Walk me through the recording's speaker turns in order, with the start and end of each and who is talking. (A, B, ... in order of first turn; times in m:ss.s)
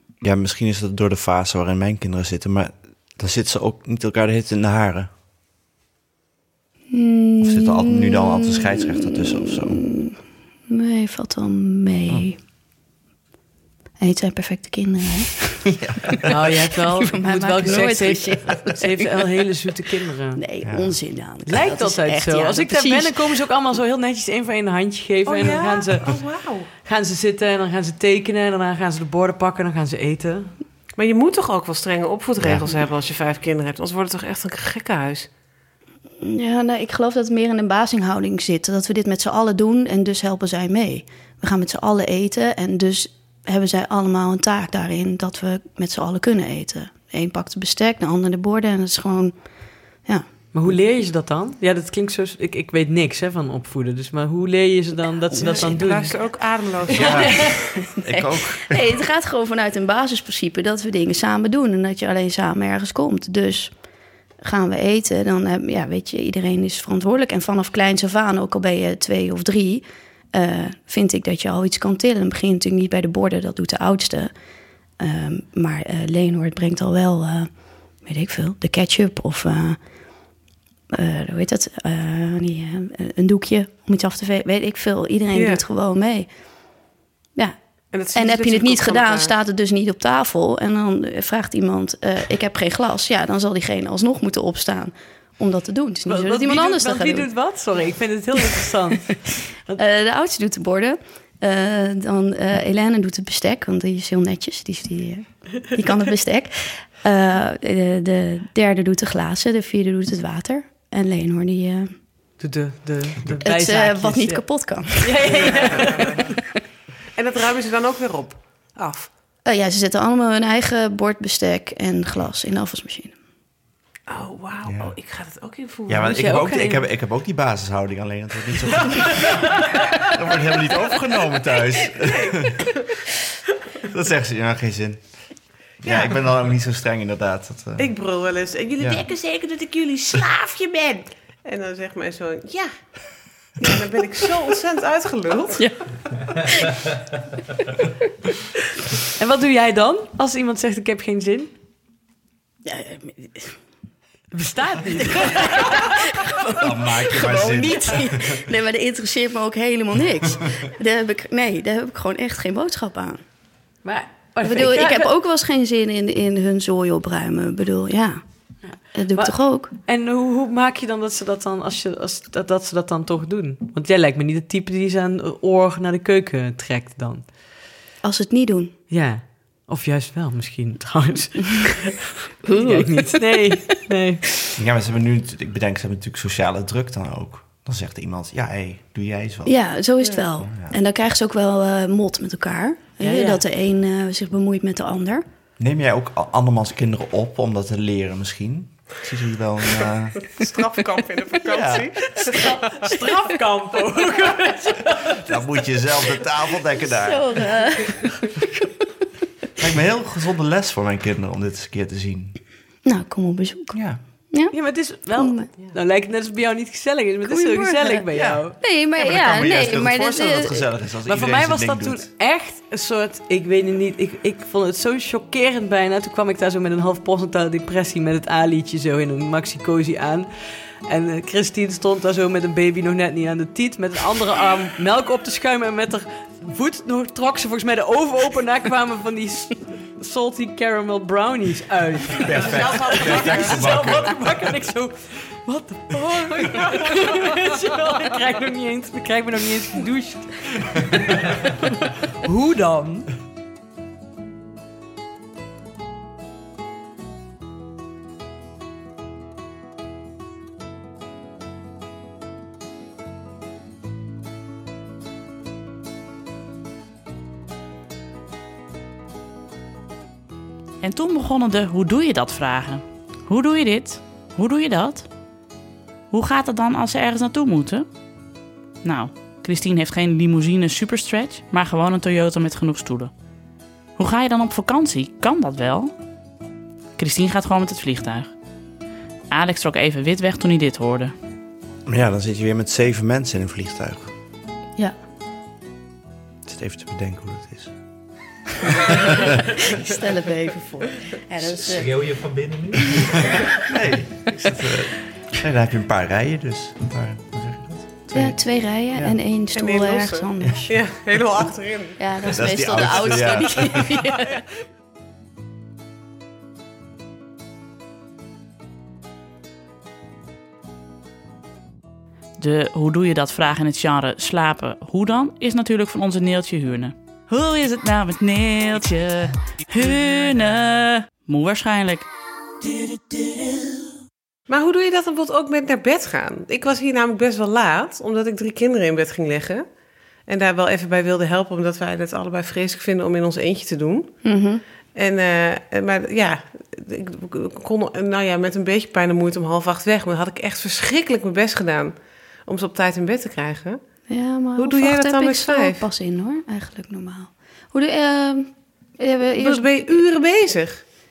0:00.2-0:05.1 A
0:06.9-0:10.2 B
0:07.4-0:09.8 A
0:10.7-0:12.4 B
0:14.0-0:16.2 B
0:15.8-0:16.2 A
0:16.2-0:20.4 C
0:16.9-0:19.2 B
0:20.4-0:23.2 B
0:20.6-0:21.0 A
0:21.4-0:30.5 C
0:25.2-0:26.7 D
0:31.0-0:35.3 D
0:32.4-0:32.7 A
0:36.2-0:49.3 B
0:50.5-0:56.2 C
0:55.3-0:55.8 B
0:55.4-0:57.5 D
0:56.9-0:57.6 C
0:56.9-0:59.0 A
0:57.9-1:03.7 B
1:04.4-1:14.3 B
1:15.0-1:17.5 B
1:18.0-1:19.8 B
1:20.9-1:26.3 B
1:25.3-1:25.6 D
1:27.9-1:29.3 D
1:28.1-1:37.3 B
1:36.1-1:39.8 C
1:39.8-1:51.9 B
1:52.4-1:54.4 C
1:53.4-1:55.5 B
1:55.0-1:56.3 C
1:55.3-1:56.2 D
1:57.2-1:59.1 D
1:59.4-2:03.1 B
2:04.1-2:06.2 D
2:04.6-2:04.9 A
2:05.9-2:12.7 A
2:06.1-2:06.8 C
2:11.9-2:12.9 D
2:13.8-2:15.0 A
2:15.8-2:17.9 A
2:15.8-2:16.1 D
2:17.8-2:22.7 D
2:23.6-2:25.7 D
2:29.2-2:31.5 C
2:32.6-2:33.5 B
2:34.3-2:35.9 C
2:35.2-2:43.2 B
2:36.6-2:38.4 A
2:43.8-2:45.1 C
2:44.4-2:48.2 B
2:48.7-2:57.3 C
2:48.9-2:49.7 B
2:58.0-2:58.7 B
2:58.9-3:02.0 C
3:02.4-3:03.5 B
3:02.5-3:04.2 C
3:04.6-3:09.5 A
3:09.4-3:15.2 B
3:10.4-3:10.7 A
3:13.0-3:13.4 C
3:15.6-3:20.2 A
3:20.3-3:22.9 D
3:21.5-3:22.1 A
3:22.3-3:25.6 C
3:25.2-3:27.4 A
3:26.9-3:28.7 B
3:29.6-3:32.4 A
3:32.8-3:33.8 B
3:33.7-3:34.0 A
3:34.5-3:38.6 C
3:35.2-3:35.5 B
3:37.2-3:38.0 B
3:38.1-3:38.4 A
3:38.6-3:40.6 B
3:39.0-3:42.1 A
3:41.1-3:50.3 C
3:50.8-4:13.1 C
4:02.2-4:04.2 A
4:30.8-4:35.1 E
4:36.1-4:37.9 E
4:38.8-4:43.1 E
4:44.0-4:45.9 E
4:47.0-4:48.3 E
4:49.3-4:51.1 E
4:51.8-4:54.1 A
4:56.4-4:57.7 A
4:58.9-4:59.4 A
4:59.6-5:02.0 B
5:01.4-5:03.4 F
5:03.5-5:08.4 A
5:08.1-5:10.8 B
5:09.5-5:12.0 D
5:12.0-5:14.4 B
5:12.2-5:14.0 A
5:22.4-5:32.1 E
5:32.6-5:33.8 E
5:34.5-5:39.6 D
5:40.3-5:44.2 D
5:44.2-5:44.6 B
5:44.9-5:53.8 D
5:54.1-5:59.7 B
5:54.6-5:55.9 D
5:59.4-6:00.8 D